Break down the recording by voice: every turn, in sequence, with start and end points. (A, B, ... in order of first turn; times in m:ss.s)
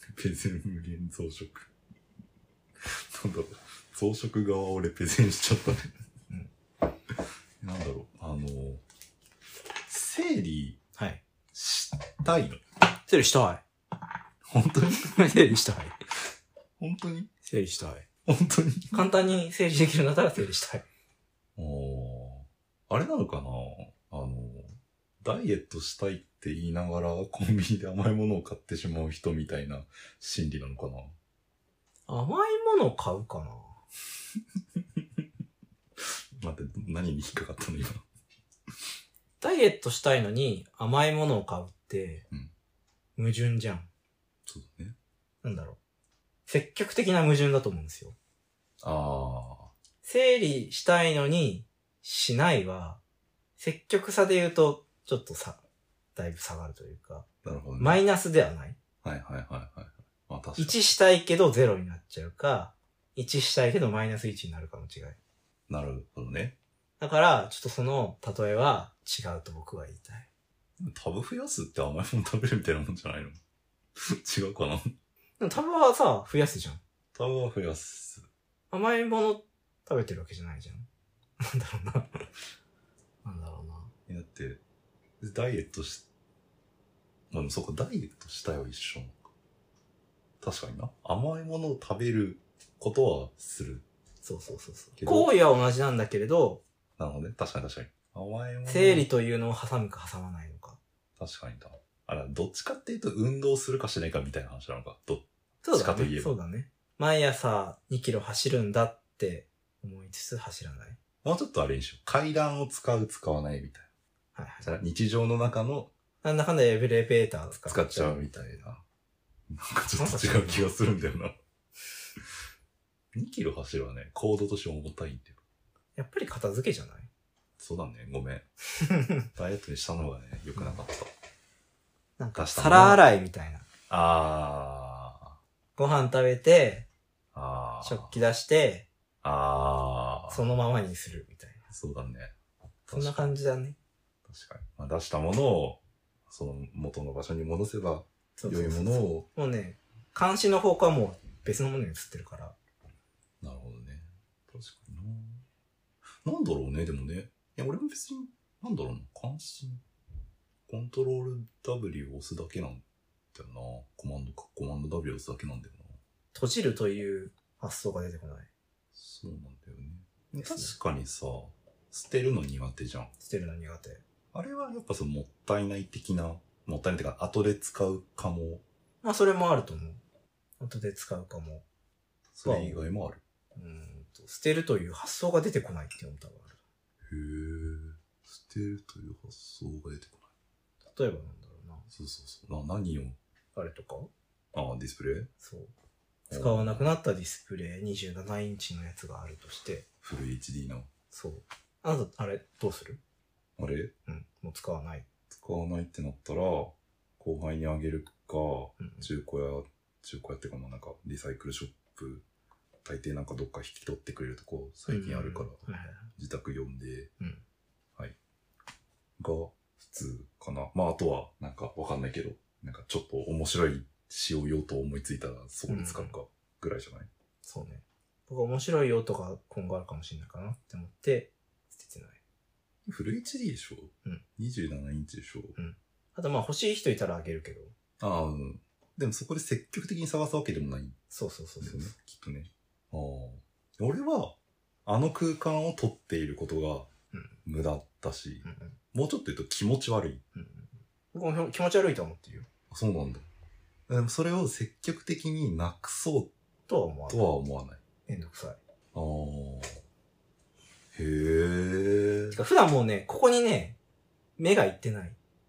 0:00.2-0:01.7 A
0:02.8-0:05.9 A
0:07.6-0:08.8 A
0:09.8-0:10.8 A
0:10.9-0:11.2 B
0:11.5-0:12.6 A
0:13.1-0:13.6 B
0:14.5-0:15.2 A
0:14.9-0:15.9 B
0:16.8-0:17.3 A
0:17.4-0:18.0 B
0:18.3-0:19.0 A
0:18.9-0:20.8 B
0:21.6-0:31.1 A
0:32.1-0:33.8 B
0:36.4-0:38.0 A
0:39.4-0:42.2 B
0:43.2-0:43.9 B
0:44.4-0:45.0 A
0:45.4-0:45.8 B
0:46.5-0:48.2 B
0:48.8-0:49.7 A
0:50.0-0:53.0 B
0:53.6-0:55.6 B
0:56.2-0:57.2 B
0:57.4-0:58.0 A
0:57.8-0:58.8 B
0:59.0-1:00.8 A
1:00.6-1:05.2 B
1:05.7-1:06.6 A
1:07.0-1:10.3 B
1:10.8-1:13.4 A
1:14.0-1:14.9 A
1:15.4-1:16.8 B
1:17.1-1:18.3 A
1:18.7-1:20.9 B
1:21.4-1:22.2 B
1:23.2-1:23.9 B
1:24.1-1:24.6 A
1:25.2-1:26.0 A
1:27.3-1:29.2 A
1:30.4-1:33.8 A
1:34.2-1:36.6 B
1:35.0-1:35.3 A
1:37.0-1:39.1 A
1:38.6-1:40.8 B
1:41.2-1:46.4 A
1:45.6-1:51.0 B
1:51.2-1:53.9 A
1:54.3-1:54.7 B
1:54.6-1:55.9 A
1:56.2-1:58.6 B
1:57.6-1:58.8 A
1:59.5-2:01.3 A
2:00.0-2:00.7 B
2:03.1-2:05.4 A
2:06.0-2:07.1 B
2:07.6-2:08.4 A
2:08.8-2:09.2 B
2:09.3-2:11.1 A
2:12.2-2:13.6 B
2:12.3-2:13.0 A
2:13.9-2:15.4 A
2:15.8-2:16.9 B
2:17.3-2:18.2 A
2:17.8-2:18.9 B
2:19.2-2:20.4 A
2:20.3-2:21.6 B
2:21.7-2:22.3 A
2:22.9-2:23.3 A
2:22.9-2:23.8 B
2:24.3-2:29.2 A
2:28.4-2:32.6 B
2:33.4-2:35.4 A
2:36.2-2:39.8 A
2:40.7-2:46.0 A
2:46.3-2:48.5 B
2:48.9-2:53.1 A
2:50.4-2:50.7 B
2:53.2-2:54.0 B
2:54.3-2:58.6 A
2:59.0-3:00.0 B
3:00.6-3:01.6 B
3:02.3-3:03.2 A
3:02.4-3:02.8 B
3:03.5-3:06.6 B
3:07.1-3:10.3 A
3:10.9-3:11.8 B
3:11.9-3:13.2 A
3:13.5-3:14.1 B
3:14.5-3:15.3 A
3:15.4-3:15.7 B
3:16.3-3:16.9 A
3:16.3-3:19.8 B
3:20.0-3:20.9 A
3:21.1-3:23.0 B
3:23.6-3:23.9 A
3:24.0-3:25.0 B
3:25.3-3:32.2 A
3:28.8-3:29.0 B
3:32.8-3:37.1 A
3:34.9-3:36.1 B
3:39.2-3:47.1 A
3:45.7-3:46.1 B
3:47.4-3:52.2 B
3:52.8-3:55.6 A
3:55.6-3:57.7 B
3:58.0-4:01.0 A
4:01.1-4:01.9 B
4:01.6-4:06.9 A
4:07.4-4:10.2 A
4:08.4-4:08.8 B
4:10.3-4:12.5 B
4:12.7-4:13.2 A
4:13.9-4:16.3 A
4:16.7-4:17.3 B
4:17.1-4:17.8 A
4:18.0-4:18.6 B
4:18.9-4:19.8 A
4:20.9-4:22.4 A
4:22.3-4:23.8 B
4:24.4-4:25.2 B